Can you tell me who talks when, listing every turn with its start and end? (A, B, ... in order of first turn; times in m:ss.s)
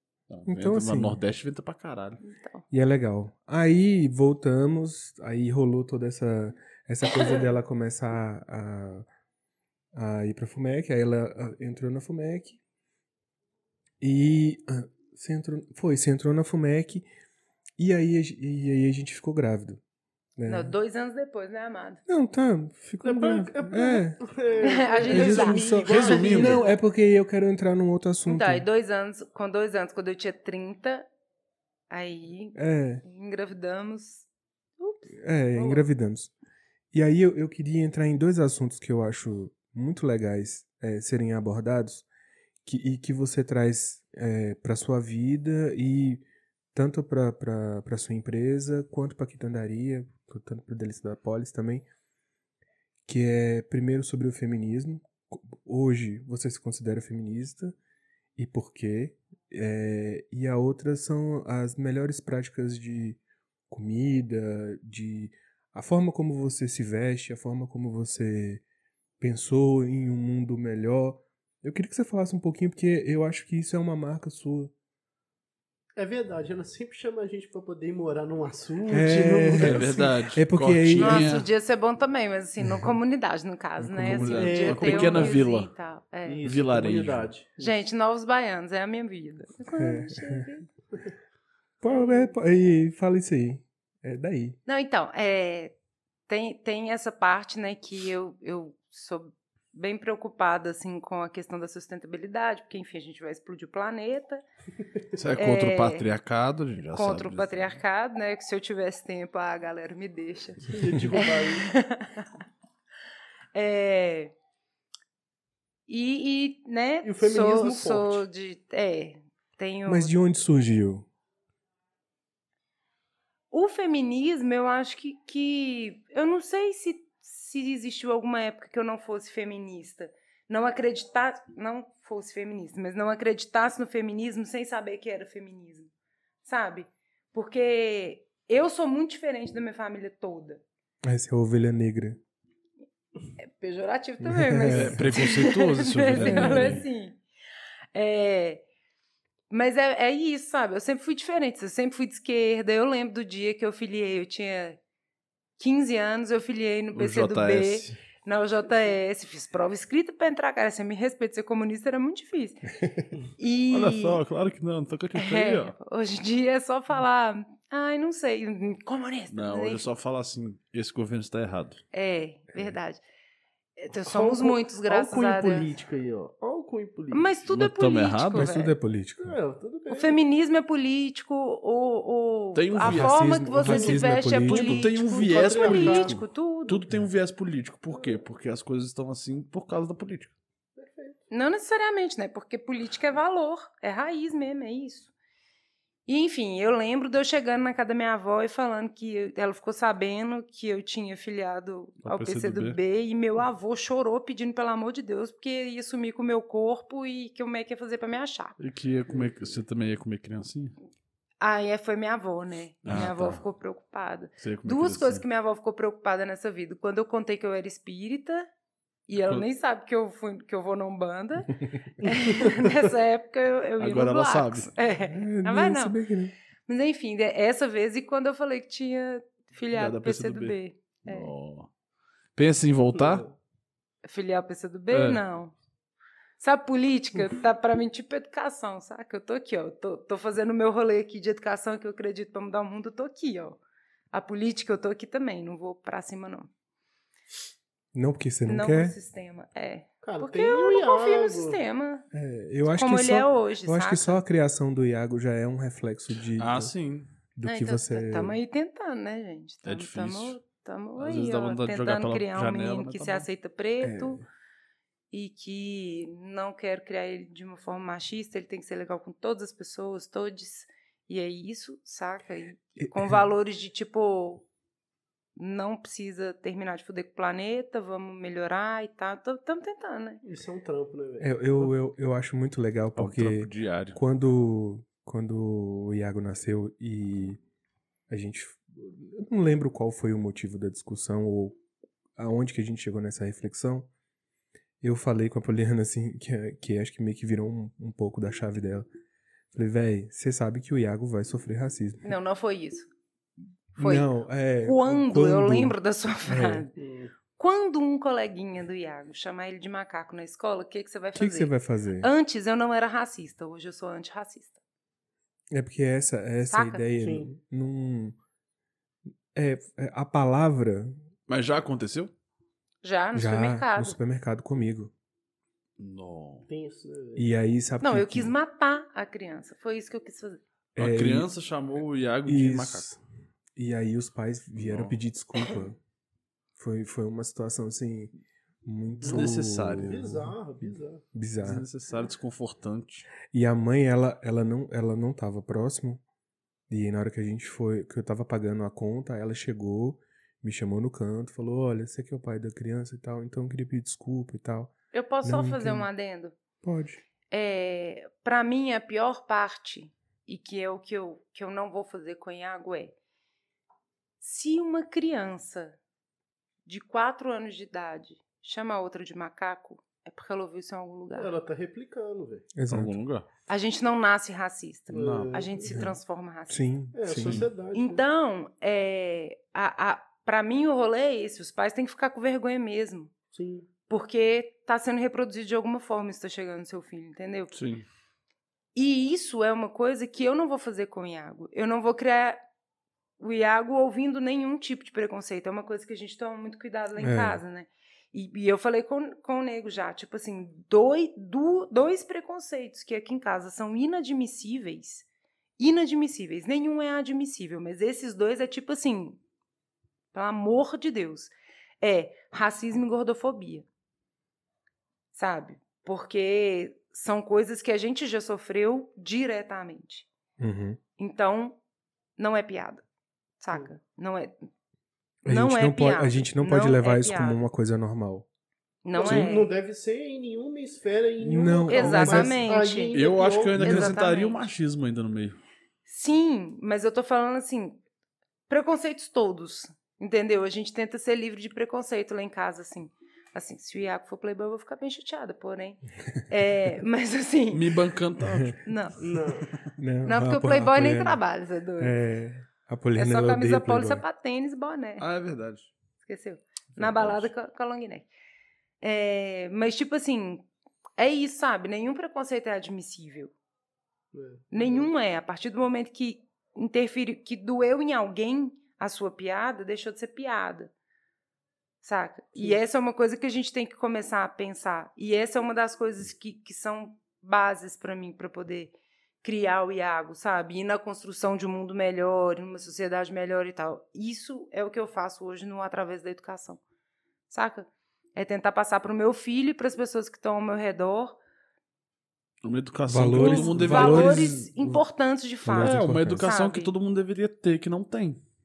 0:00.3-0:02.2 A
0:00.5-0:01.2 B
0:02.2-0:02.6 C
0:02.7-0:09.1 B
0:07.0-0:07.5 C
0:09.9-0:12.6 B
0:14.0-0:17.1 B
0:17.8-0:19.8 B
0:20.4-0:20.7 B
0:20.5-0:22.0 C
0:22.1-0:24.2 B
0:23.0-0:26.6 D
0:24.6-0:26.8 C
0:25.0-0:28.6 B
0:25.9-0:26.6 A
0:28.3-0:31.1 C
0:31.9-0:34.3 C
0:32.6-0:33.0 B
0:34.8-0:35.8 C
0:35.2-0:36.3 B
0:36.9-0:42.1 B
0:42.6-0:51.8 B
0:53.1-0:57.8 B
0:58.4-1:03.2 B
1:03.7-1:08.6 B
1:09.2-1:14.7 B
1:16.0-1:20.0 D
1:18.9-1:21.4 B
1:19.6-1:21.5 A
1:21.0-1:26.4 C
1:22.6-1:22.9 B
1:23.8-1:24.5 B
1:24.1-1:25.7 A
1:24.4-1:25.4 D
1:26.3-1:27.8 D
1:26.4-1:27.3 A
1:27.6-1:30.7 C
1:29.8-1:30.4 B
1:31.8-1:34.6 B
1:34.7-1:35.7 C
1:36.3-1:44.4 C
1:45.2-1:47.8 A
1:45.4-1:46.0 C
1:46.9-1:52.3 C
1:50.7-1:51.7 D
1:53.5-1:54.3 C
1:55.9-2:00.1 C
1:57.0-1:58.2 D
1:59.9-2:01.1 B
2:03.5-2:15.9 C
2:16.4-2:20.6 C
2:21.0-2:22.2 B
2:23.4-2:27.2 C
2:24.2-2:25.3 B
2:24.7-2:26.8 A
2:26.2-2:26.8 B
2:27.9-2:28.6 C
2:29.5-2:34.8 C
2:35.6-2:42.6 C
2:37.0-2:38.0 A
2:43.4-2:44.2 C
2:43.7-2:45.8 A
2:45.2-2:49.9 C
2:49.3-2:51.8 A
2:51.9-2:53.0 C
2:53.8-2:55.7 C
2:54.0-2:57.3 D
2:57.1-2:58.8 C
2:57.5-2:58.5 A
2:58.4-2:59.4 B
2:59.2-3:00.2 D
2:59.9-3:06.8 C
3:02.6-3:03.1 A
3:02.8-3:04.8 B
3:03.6-3:04.0 D
3:04.4-3:10.3 A
3:05.2-3:06.2 D
3:10.8-3:11.2 D
3:11.3-3:15.1 C
3:16.1-3:28.6 C
3:22.0-3:22.8 A
3:28.6-3:30.8 A
3:31.4-3:38.5 C
3:32.8-3:33.4 A
3:34.4-3:35.2 A
3:39.1-3:46.0 C
3:42.1-3:42.6 D
3:43.8-3:44.7 A
3:45.0-3:46.3 B
3:46.7-3:51.3 C
3:49.7-3:51.7 A
3:52.4-3:53.3 A
3:52.9-3:53.3 D
3:54.0-3:55.6 C
3:54.9-3:55.2 A
3:56.4-4:03.6 C
4:04.1-4:06.5 C
4:07.9-4:09.0 B
4:08.5-4:12.0 C
4:10.0-4:11.6 D
4:12.1-4:16.7 B
4:12.7-4:14.2 C
4:16.4-4:17.1 A
4:17.4-4:18.4 B
4:17.4-4:24.2 C
4:19.6-4:20.4 A
4:21.0-4:23.3 A
4:23.8-4:24.2 B
4:25.1-4:34.5 C
4:32.8-4:33.2 B
4:35.4-4:40.2 C
4:40.2-4:41.7 D
4:41.2-4:47.4 B
4:43.0-4:44.0 A
4:48.1-4:51.6 B
4:52.2-4:53.9 B
4:54.8-4:58.9 B
4:59.5-5:02.0 B
5:02.0-5:02.9 C
5:03.8-5:06.7 C
5:03.8-5:06.7 B
5:06.8-5:07.1 D
5:07.4-5:14.6 C
5:11.2-5:12.1 B
5:15.5-5:18.2 B
5:16.5-5:16.8 C
5:17.0-5:17.3 D
5:19.3-5:21.0 B
5:21.3-5:22.1 A
5:22.8-5:24.0 C
5:23.2-5:24.9 B
5:25.8-5:26.5 A
5:26.5-5:27.4 D
5:27.2-5:28.3 B
5:27.8-5:30.4 C
5:30.8-5:31.3 B
5:30.8-5:32.9 A
5:32.2-5:33.0 B
5:33.6-5:35.8 B
5:34.6-5:35.0 A
5:36.6-5:40.4 B
5:39.0-5:41.0 D
5:39.0-5:40.0 A
5:41.1-5:41.6 B
5:41.4-5:43.1 A
5:43.3-5:46.0 B
5:46.7-5:54.7 B
5:54.9-5:56.4 C
5:55.2-5:55.9 B
5:56.6-5:57.0 B
5:57.3-6:02.9 C
6:04.2-6:05.8 C
6:06.7-6:11.3 C
6:11.2-6:12.5 D
6:12.6-6:13.0 B
6:12.7-6:13.3 A
6:13.5-6:16.6 C
6:14.9-6:15.8 D
6:14.9-6:15.3 A
6:16.5-6:17.4 B
6:16.9-6:18.0 D
6:17.1-6:17.5 A
6:17.7-6:23.1 C
6:23.3-6:23.7 D
6:23.9-6:27.5 C
6:27.5-6:27.8 A
6:28.8-6:32.4 C
6:33.2-6:45.1 C
6:37.0-6:37.4 B
6:45.6-6:49.2 C
6:50.1-6:53.7 C
6:55.1-7:00.1 C
7:00.4-7:00.8 B
7:01.0-7:01.6 C
7:02.2-7:02.8 C
7:03.4-7:04.4 C
7:05.2-7:08.3 B
7:05.3-7:07.4 C
7:08.8-7:09.5 C
7:09.0-7:13.7 D
7:11.2-7:12.4 B
7:11.7-7:13.0 C
7:12.9-7:15.4 A
7:13.6-7:13.9 B
7:13.6-7:14.5 C
7:15.9-7:17.8 C
7:18.5-7:27.7 C
7:27.5-7:28.6 A
7:28.2-7:28.5 B
7:28.6-7:29.0 C
7:29.0-7:29.5 D
7:29.8-7:31.2 B
7:30.0-7:32.0 C
7:31.8-7:34.0 B
7:33.0-7:35.0 C
7:35.0-7:35.7 A
7:36.0-7:38.1 C
7:36.8-7:37.3 A
7:38.8-7:40.5 C
7:41.0-7:43.3 C
7:44.1-7:44.9 D
7:44.5-7:50.7 C
7:51.8-8:06.6 C
8:07.3-8:11.2 C
8:12.4-8:14.5 A
8:12.9-8:14.8 B
8:13.2-8:16.7 C
8:15.4-8:16.3 B
8:15.6-8:18.2 A